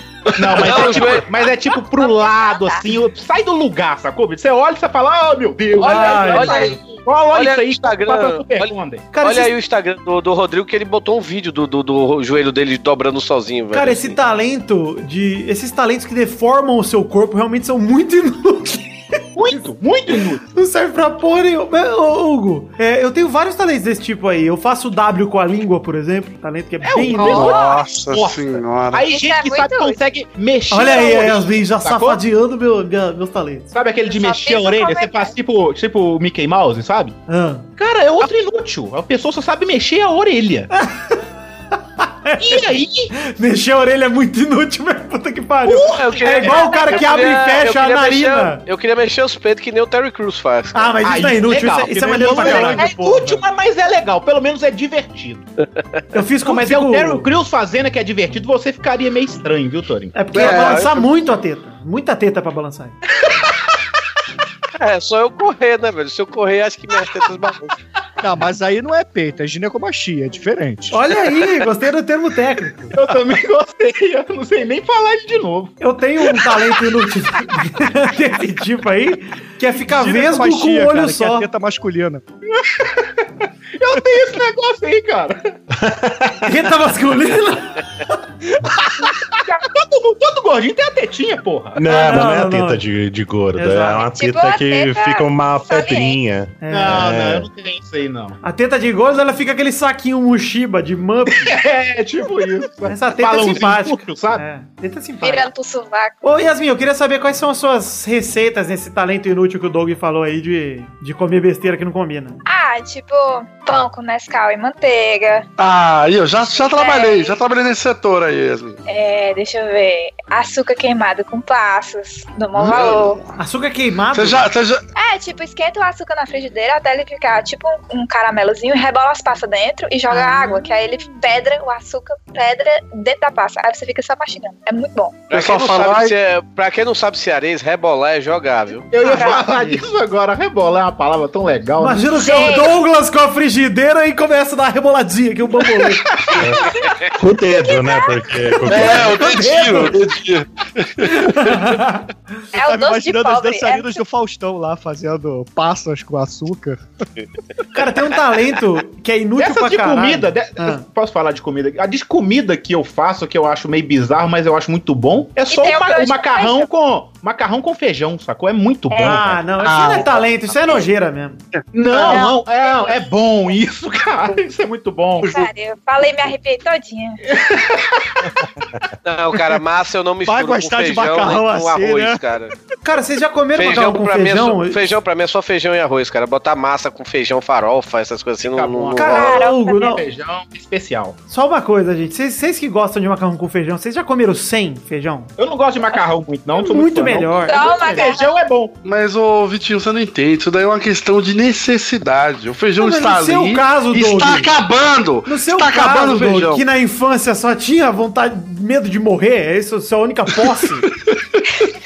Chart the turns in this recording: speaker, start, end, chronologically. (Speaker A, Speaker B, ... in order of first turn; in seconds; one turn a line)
Speaker A: 0.3-9.0
Speaker B: 0.5-1.2
Speaker C: 1.9-2.8
Speaker B: 5.8-6.7
Speaker D: 5.8-6.8
Speaker C: 5.8-7.0
Speaker B: 7.3-14.2
Speaker D: 9.1-9.5
Speaker D: 13.7-18.9
Speaker A: 19.3-20.4
Speaker D: 20.5-27.5
Speaker A: 26.8-32.2
Speaker C: 27.1-27.8
Speaker E: 27.2-29.1
Speaker C: 29.0-30.0
Speaker D: 30.7-33.7
Speaker A: 33.7-37.1
Speaker C: 34.1-35.3
Speaker D: 37.3-37.7
Speaker A: 37.8-40.7
Speaker D: 40.7-41.1
Speaker D: 42.0-48.6
Speaker A: 42.4-43.1
Speaker A: 45.6-46.7
Speaker B: 46.0-50.9
Speaker C: 46.4-46.9
Speaker D: 50.7-53.4
Speaker A: 51.0-55.5
Speaker B: 52.4-52.8
Speaker D: 56.1-57.2
Speaker A: 56.4-60.1
Speaker D: 60.1-63.0
Speaker E: 60.3-61.1
Speaker B: 64.8-67.8
Speaker F: 68.2-70.9
Speaker D: 70.9-72.9
Speaker A: 72.9-76.7
Speaker D: 75.8-81.5
Speaker F: 79.9-82.2
Speaker A: 82.5-85.5
Speaker G: 85.7-86.5
Speaker D: 86.4-88.2
Speaker A: 89.7-91.8
Speaker G: 91.8-97.5
Speaker D: 91.8-92.8
Speaker D: 93.5-94.0
Speaker C: 94.1-96.2
Speaker D: 96.6-97.0
Speaker A: 96.7-98.4
Speaker D: 98.4-101.5
Speaker A: 101.3-104.4
Speaker D: 102.9-105.5
Speaker C: 105.2-106.2
Speaker D: 106.2-112.4
Speaker C: 112.5-115.5
Speaker E: 115.6-118.8
Speaker C: 116.5-117.4
Speaker C: 118.9-123.2
Speaker E: 122.5-123.3
Speaker D: 123.4-124.5
Speaker E: 124.1-124.8
Speaker C: 125.0-135.2
Speaker D: 130.1-130.7
Speaker B: 135.3-138.9
Speaker E: 135.3-136.1
Speaker A: 138.9-142.1
Speaker C: 139.0-139.4
Speaker D: 139.0-139.8
Speaker D: 141.8-146.0
Speaker C: 142.2-142.7
Speaker G: 146.4-149.1
Speaker C: 147.5-148.5
Speaker D: 148.6-150.0
Speaker E: 148.7-151.7
Speaker D: 151.0-152.1
Speaker C: 152.5-154.0
Speaker F: 152.6-156.8
Speaker D: 157.7-160.8
Speaker A: 159.4-169.3
Speaker C: 165.5-166.7
Speaker D: 168.9-172.2
Speaker G: 169.0-169.4
Speaker E: 169.6-170.2
Speaker A: 171.7-175.3
Speaker C: 172.1-173.0
Speaker E: 175.2-175.5
Speaker C: 175.3-177.2
Speaker A: 177.4-178.2
Speaker B: 179.0-182.5
Speaker F: 180.2-182.2
Speaker D: 182.8-184.9
Speaker B: 183.5-189.0
Speaker A: 188.4-191.2
Speaker D: 188.9-190.0
Speaker C: 189.0-190.0
Speaker D: 191.3-195.3
Speaker A: 195.4-198.7
Speaker D: 196.6-198.1
Speaker C: 197.5-198.4
Speaker E: 198.8-206.6
Speaker D: 202.8-204.5
Speaker D: 205.2-210.9